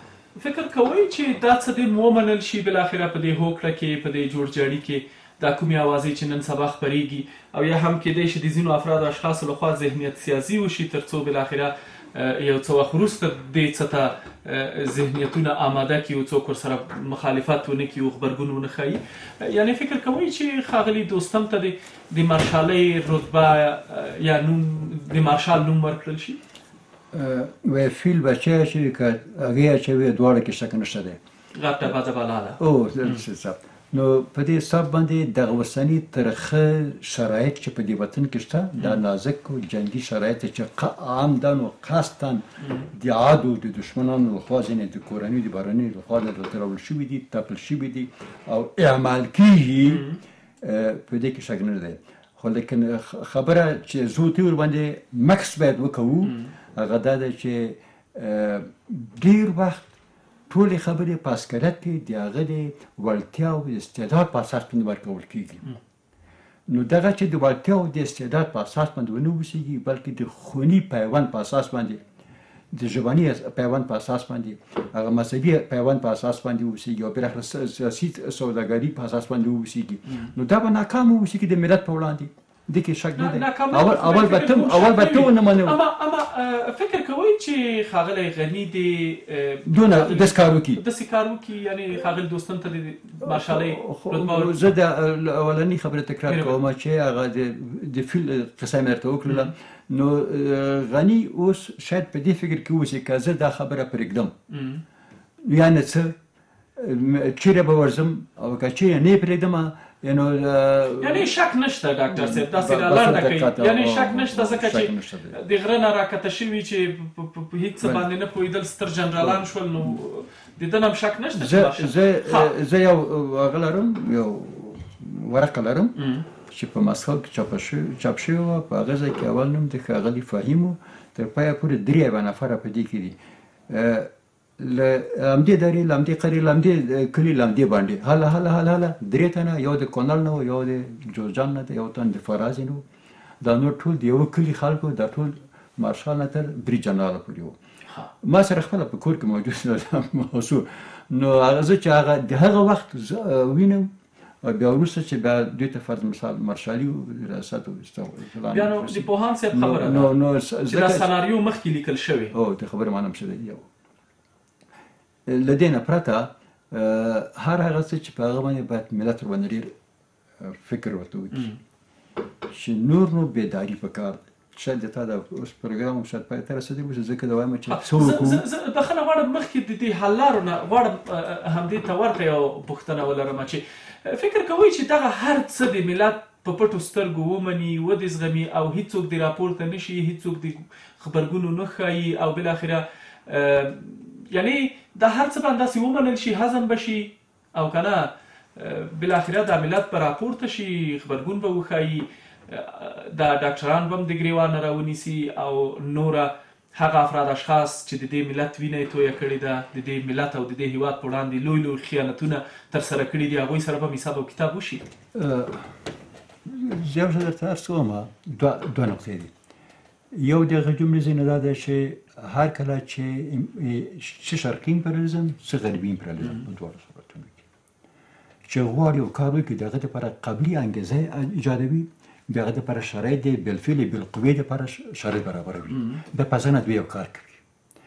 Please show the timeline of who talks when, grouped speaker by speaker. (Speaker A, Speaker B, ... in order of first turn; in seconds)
Speaker A: 0.3-26.4, 31.5-33.2, 42.6-42.9, 49.8-50.2, 56.2-56.5, 83.2-94.6, 96.3-96.5, 104.5-104.8, 111.0-122.5, 126.0-126.2, 158.5-160.1, 160.7-162.3, 171.3-171.6, 177.7-214.8, 235.7-236.0
Speaker B: 27.1-31.2, 32.6-50.1, 50.6-59.9, 60.5-65.6, 66.7-72.0, 72.7-85.8, 89.7-90.8, 93.2-104.3, 105.4-106.2, 106.8-111.3, 112.1-115.3, 119.2-119.9, 121.3-133.2, 133.7-142.8, 143.4-147.6, 148.2-153.9, 154.4-161.1, 162.3-163.7, 165.2-169.7, 170.4-171.5, 172.5-178.4, 215.1-215.7, 216.4-219.3, 220.1-227.4, 228.5-237.4